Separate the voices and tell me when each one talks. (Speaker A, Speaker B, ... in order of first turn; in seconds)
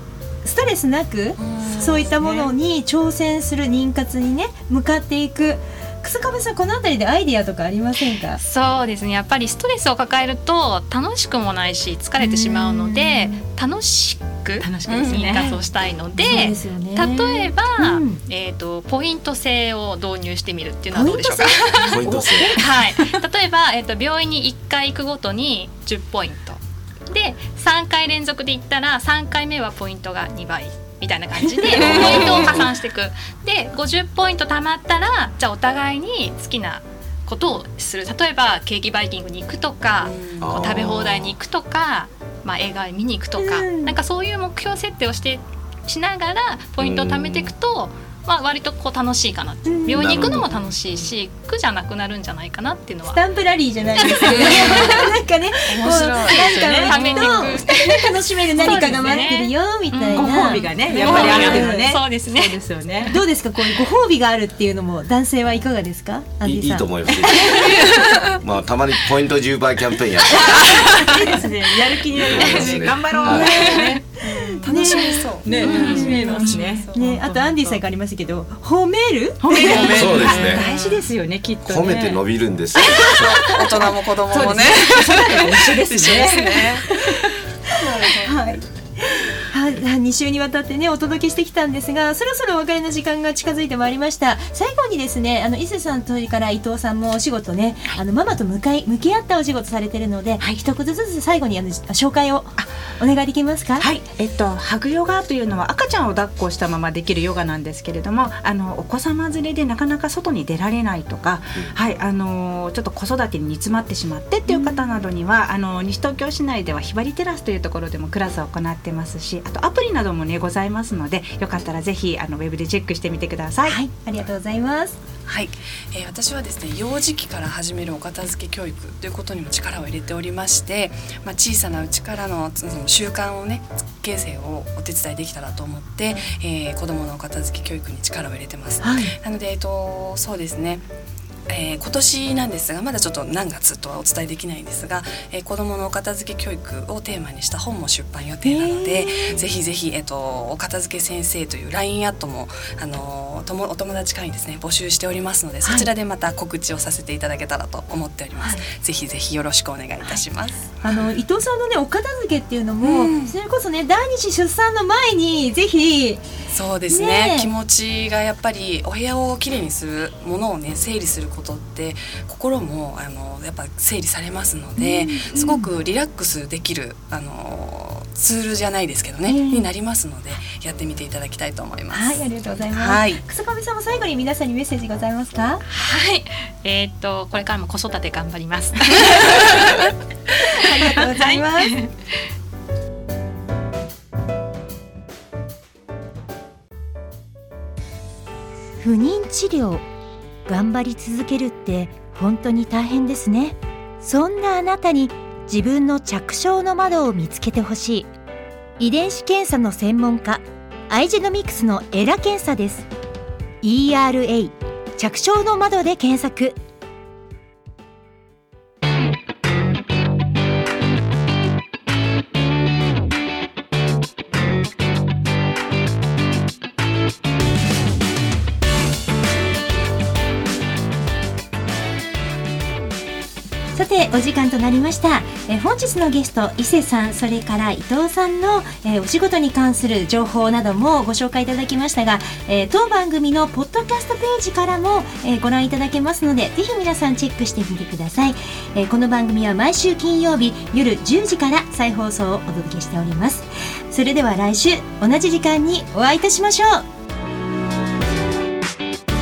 Speaker A: 0.4-8.4, 12.2-13.4, 16.2-18.2, 20.9-22.4, 31.7-32.0, 43.4-44.0, 49.6-50.5, 53.1-62.0, 63.1-68.2, 74.6-80.2, 88.2-103.9, 114.5-115.0, 123.6-125.0, 138.8-139.1, 148.4-149.4, 155.6-155.9, 158.4-158.7, 160.8-166.2, 166.9-167.5, 174.8-175.7, 179.3-179.7, 181.9-185.6, 190.6-191.7, 198.8-199.8, 200.5-208.1, 208.8-212.9, 213.6-216.6, 233.8-256.8
Speaker B: 1.4-2.4, 14.9-15.2, 31.8-32.6, 40.0-40.6, 50.6-51.1, 54.2-54.9, 55.7-56.5, 74.2-77.0, 79.7-80.6, 83.1-88.4, 125.3-140.8, 141.5-160.8, 162.8-163.3, 166.5-183.2
Speaker C: 8.3-53.2, 54.0-55.1, 55.9-63.1, 67.7-68.2, 73.2-74.0, 75.6-76.6, 185.7-189.9, 190.7-191.9
Speaker D: 14.6-15.6, 22.1-22.8, 56.5-57.0, 58.6-59.0, 60.1-63.1, 70.3-74.0, 74.6-74.9, 75.4-77.8, 79.4-82.2, 82.8-83.7, 84.3-87.2, 88.0-88.5, 103.8-123.8
Speaker E: 21.8-22.6, 31.9-32.5, 40.4-41.4, 46.8-47.5, 49.9-50.5, 66.4-67.8, 68.4-71.1, 72.1-73.7, 79.8-80.6, 81.6-83.5